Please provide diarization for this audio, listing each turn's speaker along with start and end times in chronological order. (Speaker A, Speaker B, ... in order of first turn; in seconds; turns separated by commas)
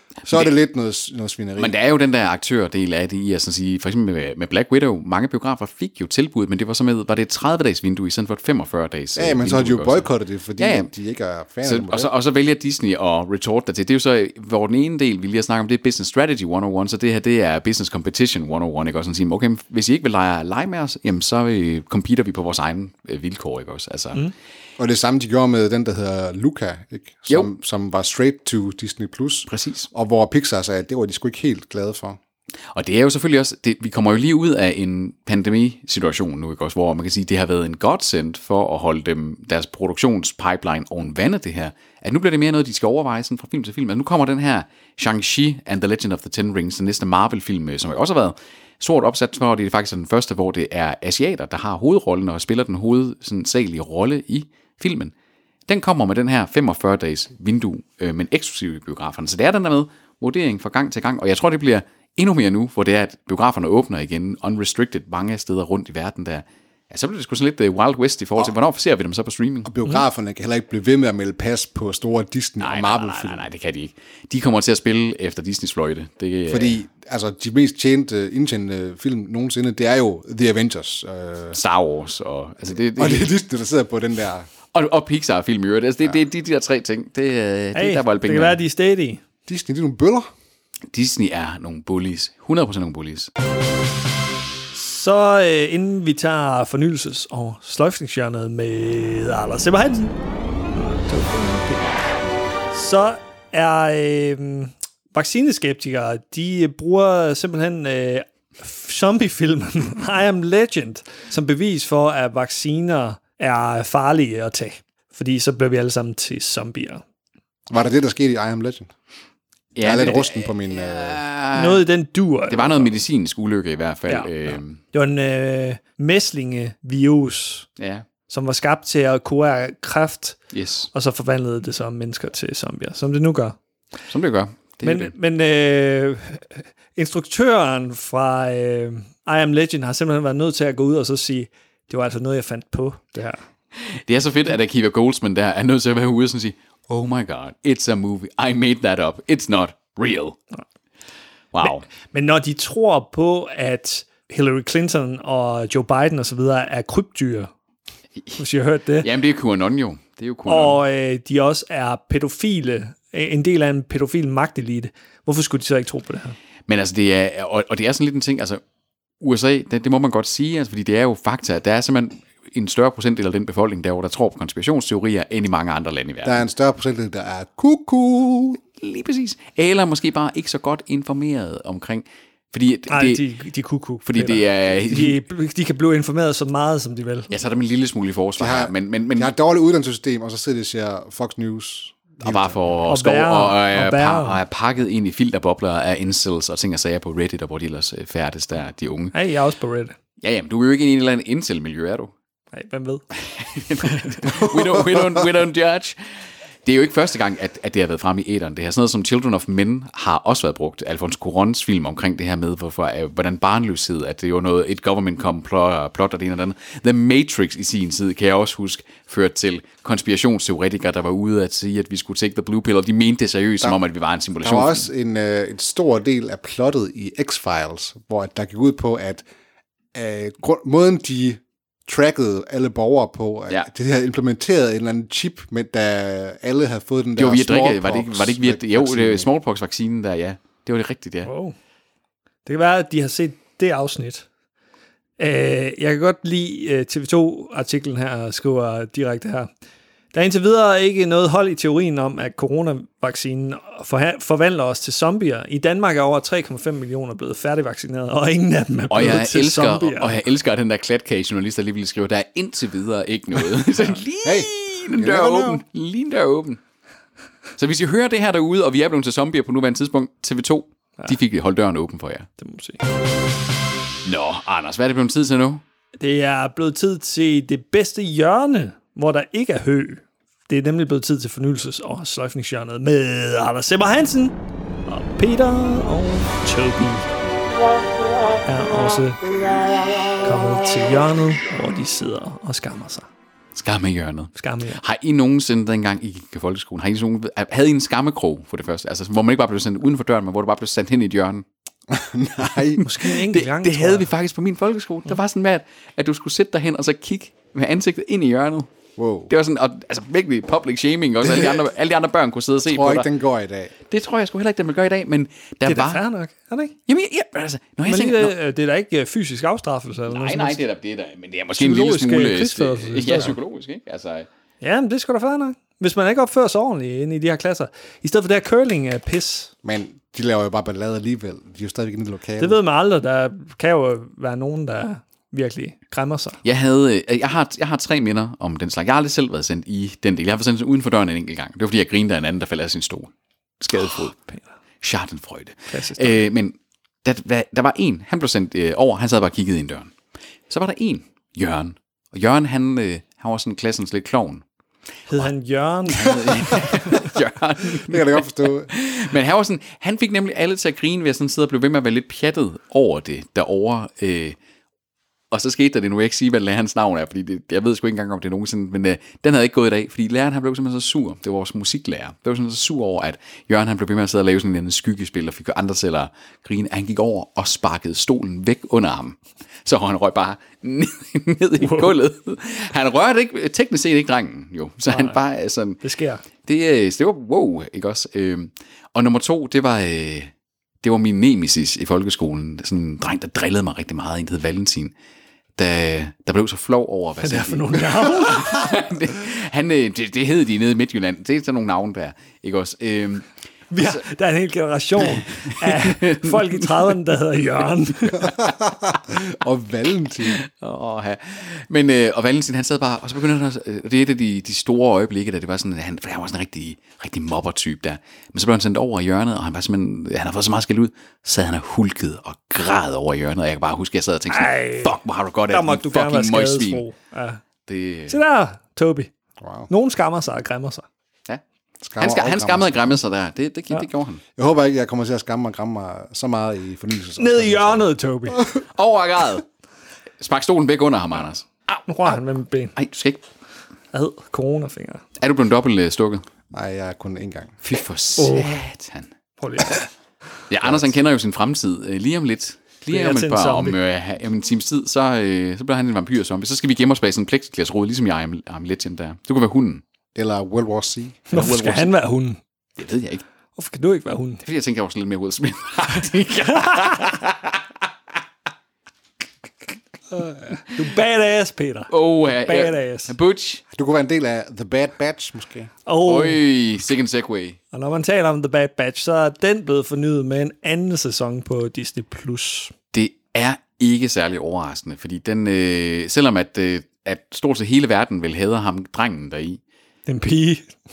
Speaker A: 0.2-0.5, Speaker B: 0.2-1.8, Speaker A: 1.6-10.9, Speaker B: 9.2-12.1, Speaker A: 11.6-24.3, Speaker B: 24.8-32.2, Speaker A: 29.5-29.9, Speaker A: 32.7-55.1, Speaker A: 55.7-69.7, Speaker B: 69.6-73.5, Speaker A: 72.6-76.8, Speaker B: 76.5-81.6, Speaker A: 81.5-83.3, Speaker B: 83.0-84.5, Speaker A: 84.7-88.6, Speaker C: 87.7-89.2, Speaker B: 89.5-90.3, Speaker A: 90.9-93.3, Speaker C: 94.7-100.1, Speaker C: 100.7-102.0, Speaker C: 102.7-117.0, Speaker B: 117.7-118.9, Speaker A: 119.7-121.8, Speaker B: 119.8-121.2, Speaker C: 121.5-122.9, Speaker A: 122.5-124.8, Speaker C: 124.1-127.7, Speaker A: 127.8-128.0, Speaker C: 128.3-130.4, Speaker A: 130.5-130.9, Speaker C: 130.9-133.6, Speaker A: 134.1-135.1, Speaker C: 134.8-143.4, Speaker A: 143.8-150.4, Speaker A: 151.5-151.8, Speaker C: 151.6-157.5, Speaker C: 158.4-159.1, Speaker A: 159.0-160.8, Speaker C: 160.5-166.3, Speaker A: 166.7-168.6, Speaker A: 169.2-176.4, Speaker B: 176.2-178.6, Speaker A: 178.7-183.2, Speaker C: 182.9-187.3, Speaker A: 184.1-185.2, Speaker A: 187.3-189.3, Speaker B: 188.4-192.6, Speaker A: 192.2-199.1, Speaker C: 192.9-194.4, Speaker C: 199.1-199.9, Speaker A: 200.2-202.1, Speaker C: 202.5-203.0, Speaker A: 203.1-206.0, Speaker C: 203.8-204.5, Speaker A: 206.6-224.9, Speaker B: 224.4-229.2, Speaker B: 229.9-239.3, Speaker A: 237.2-241.3, Speaker C: 241.2-241.5, Speaker C: 242.4-244.3, Speaker C: 245.2-249.5, Speaker C: 250.1-260.2, Speaker A: 258.9-266.6, Speaker B: 264.2-265.6, Speaker A: 267.6-272.3, Speaker C: 272.4-272.8, Speaker A: 274.0-275.6, Speaker C: 276.0-284.4, Speaker C: 284.9-287.1, Speaker C: 288.4-289.2, Speaker C: 290.2-293.1, Speaker A: 293.5-301.4, Speaker C: 294.4-294.8, Speaker B: 301.9-302.8, Speaker A: 302.8-308.7, Speaker C: 302.8-304.1, Speaker B: 309.0-309.3, Speaker A: 309.3-313.1, Speaker B: 311.2-311.6, Speaker B: 312.7-313.7, Speaker A: 313.9-316.0, Speaker C: 315.6-316.7, Speaker A: 316.9-318.3, Speaker C: 317.8-320.6, Speaker A: 320.1-324.3, Speaker C: 321.6-323.4, Speaker C: 324.6-329.5, Speaker B: 329.6-332.6, Speaker C: 332.4-336.4, Speaker A: 336.4-344.2, Speaker A: 344.8-349.9, Speaker C: 345.7-346.2, Speaker A: 350.5-354.4, Speaker C: 355.1-357.1, Speaker A: 355.9-364.4, Speaker B: 357.7-358.7, Speaker A: 365.3-385.8, Speaker C: 381.6-381.9, Speaker C: 384.9-385.2, Speaker C: 385.8-386.2, Speaker A: 386.4-390.3, Speaker A: 390.8-394.9, Speaker A: 395.6-404.0, Speaker C: 397.2-398.8, Speaker C: 403.7-408.3, Speaker A: 405.1-406.9, Speaker B: 408.1-410.4, Speaker A: 410.2-426.8, Speaker C: 424.3-425.0, Speaker C: 425.5-427.4, Speaker A: 427.6-428.2, Speaker C: 428.1-429.1, Speaker B: 429.4-429.7, Speaker C: 429.7-430.9, Speaker B: 431.8-432.8, Speaker A: 432.0-434.2, Speaker B: 434.4-437.9, Speaker C: 437.2-438.5, Speaker A: 438.5-439.4, Speaker A: 440.2-441.5, Speaker C: 441.9-442.7, Speaker A: 442.8-443.2, Speaker C: 443.9-445.0, Speaker A: 445.2-446.2, Speaker B: 446.5-447.5, Speaker A: 447.6-449.1, Speaker C: 448.2-448.6, Speaker C: 449.4-449.9, Speaker A: 450.5-459.8, Speaker C: 452.9-453.8, Speaker B: 460.1-461.3, Speaker C: 461.3-462.4, Speaker A: 461.3-461.9, Speaker A: 462.8-463.2, Speaker C: 463.6-464.4, Speaker A: 464.4-467.6, Speaker C: 466.5-467.0, Speaker C: 470.1-473.1, Speaker A: 471.9-473.6, Speaker B: 473.7-475.7, Speaker C: 475.9-476.4, Speaker A: 476.0-477.6, Speaker C: 477.7-482.7, Speaker A: 482.9-489.6, Speaker C: 490.1-490.7